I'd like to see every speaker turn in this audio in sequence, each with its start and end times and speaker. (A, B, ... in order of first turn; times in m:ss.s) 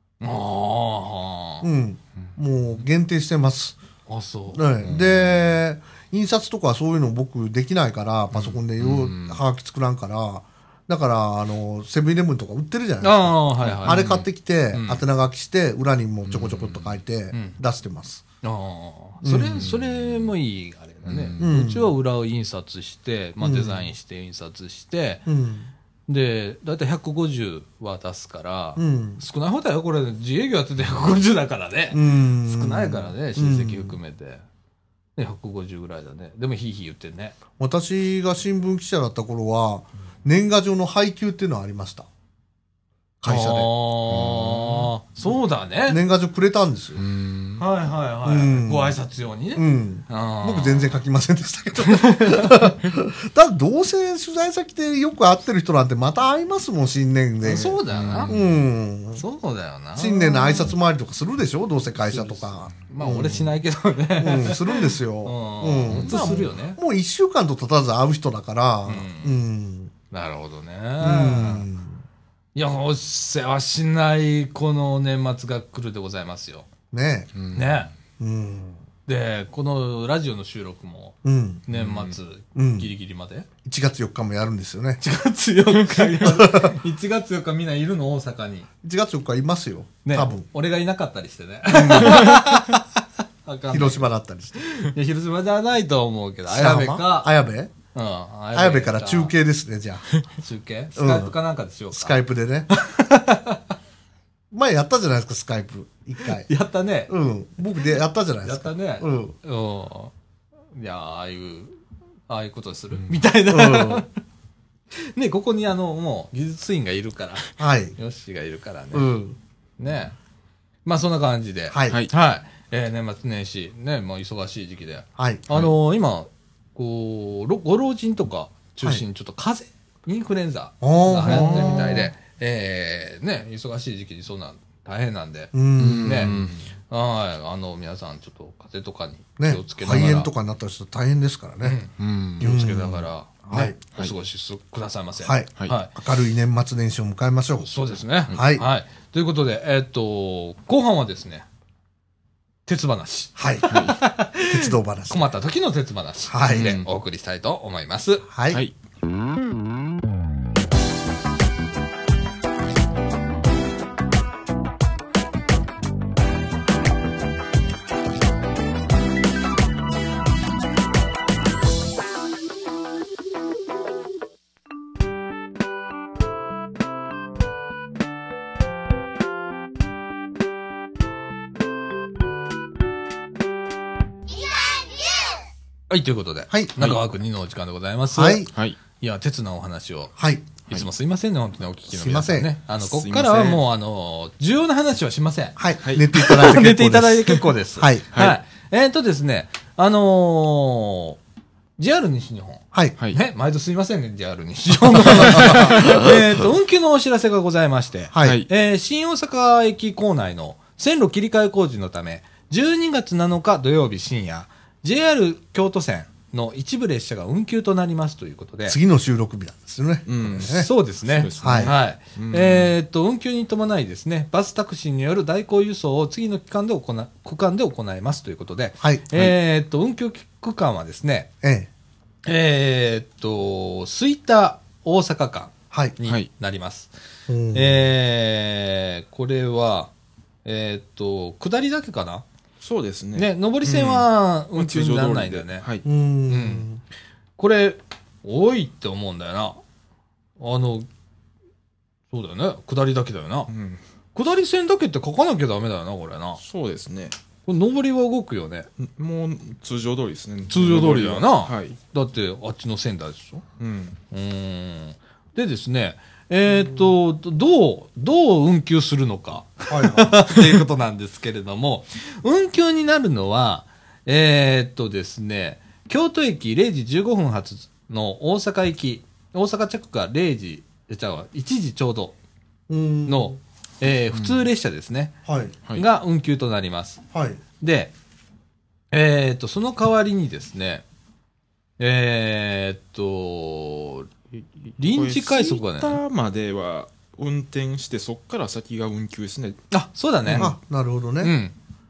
0:00.2-0:01.7 A
0:01.6-0:03.8 B
0:04.1-0:04.7 A
0:04.5-0:18.2 B
0:04.8-0:05.4 C
0:08.3-0:09.4 C
0:13.0-0:14.2 A
0:13.6-0:14.3 C
0:14.7-0:15.0 A
0:16.3-0:17.0 C
0:17.3-0:17.6 A
0:18.4-0:25.2 A
0:19.2-0:19.7 B
0:19.6-0:20.3 C
0:21.0-0:21.5 C
0:21.4-0:21.9 B
0:23.4-0:23.9 B
0:25.3-0:25.7 B
0:26.1-0:34.4 A
0:28.8-0:29.2 B
0:31.9-0:34.0 B
0:35.2-0:37.4 A
0:37.6-0:42.1 B
0:43.2-0:43.7 B
0:43.2-0:46.0 A
0:44.1-0:44.9 C
0:45.9-0:47.0 B
0:47.0-0:47.6 C
0:47.6-0:51.0 A
0:48.2-0:49.0 B
0:49.6-0:59.2 B
0:51.8-0:52.7 A
0:57.4-0:58.3 A
0:57.9-0:58.5 C
0:59.2-1:00.7 A
1:00.0-1:03.6 B
1:02.0-1:06.8 A
1:04.2-1:09.9 B
1:05.9-1:06.4 C
1:08.9-1:09.4 A
1:10.1-1:11.7 A
1:11.0-1:12.0 B
1:12.6-1:16.7 A
1:16.9-1:17.3 B
1:17.3-1:17.8 C
1:17.5-1:17.9 A
1:18.2-1:18.8 B
1:19.1-1:23.5 A
1:21.2-1:21.6 B
1:21.7-1:22.2 C
1:22.6-1:22.9 B
1:23.6-1:25.0 B
1:25.0-1:28.7 A
1:26.2-1:26.8 B
1:28.8-1:30.5 B
1:30.0-1:34.1 A
1:31.7-1:32.4 B
1:31.9-1:32.4 C
1:33.7-1:34.6 B
1:34.6-1:37.3 A
1:36.5-1:37.7 B
1:37.9-1:39.3 A
1:38.5-1:40.0 B
1:40.4-1:42.2 A
1:41.0-1:41.3 B
1:41.9-1:42.7 B
1:42.7-1:43.6 A
1:44.5-1:46.5 B
1:46.4-1:47.1 A
1:47.1-1:49.4 B
1:48.4-1:50.1 A
1:50.7-1:51.8 A
1:52.3-1:54.1 A
1:53.5-1:54.0 B
1:55.1-1:59.1 A
1:57.6-1:58.0 B
1:58.9-1:59.4 B
1:59.8-2:00.2 A
2:00.8-2:20.3 A
2:01.7-2:02.0 B
2:05.2-2:05.5 B
2:10.8-2:12.1 B
2:11.2-2:12.0 C
2:15.5-2:16.5 B
2:15.8-2:16.7 C
2:19.4-2:21.8 B
2:21.6-2:25.9 A
2:22.0-2:22.5 C
2:22.4-2:23.8 B
2:25.2-2:27.7 B
2:27.6-2:31.5 A
2:28.3-2:28.6 B
2:32.7-2:38.3 A
2:33.4-2:33.7 B
2:33.7-2:34.0 C
2:34.4-2:35.3 B
2:36.3-2:36.8 B
2:36.5-2:36.9 C
2:38.3-2:38.6 B
3:05.9-3:10.1 A
3:06.5-3:06.8 B
3:08.1-3:08.5 B
3:08.5-3:08.8 C
3:10.2-3:10.5 B
3:10.7-3:15.6 A
3:11.9-3:12.5 B
3:12.8-3:13.6 C
3:15.6-3:18.0 B
3:15.8-3:16.1 C
3:16.1-3:21.2 A
3:21.8-3:38.8 A
3:24.9-3:26.0 B
3:25.4-3:26.0 C
3:28.1-3:28.4 B
3:28.2-3:28.5 C
3:38.7-3:40.7 B
3:40.1-3:42.7 C
3:40.4-3:51.3 A
3:41.4-3:41.7 B
3:48.8-3:49.1 B
3:51.4-3:51.7 B
3:52.2-3:56.9 A
3:55.7-3:56.0 B
3:57.3-3:57.9 B
3:57.5-3:59.9 A
4:00.4-4:02.2 A
4:02.6-4:05.9 C
4:03.2-4:05.7 A
4:05.8-4:06.8 B
4:06.3-4:06.7 A
4:07.4-4:09.6 A
4:10.4-4:10.9 A
4:12.1-4:13.5 A
4:13.5-4:13.8 C
4:14.2-4:16.4 A
4:16.4-4:17.2 C
4:17.5-4:18.7 A
4:18.8-4:21.8 C
4:20.5-4:23.4 A
4:23.6-4:24.0 C
4:24.1-4:42.2 A
4:29.7-4:30.2 B
4:42.7-4:43.4 B
4:43.1-4:45.2 A
4:44.1-4:44.4 C
4:45.3-4:45.6 B
4:45.7-4:47.0 A
4:47.1-4:47.4 B
4:47.6-4:47.9 A
4:48.9-4:50.8 A
4:51.8-4:54.1 A
4:54.7-4:59.6 C
4:54.8-4:56.0 A
4:59.7-5:00.5 A
5:00.4-5:01.3 B
5:01.2-5:01.5 A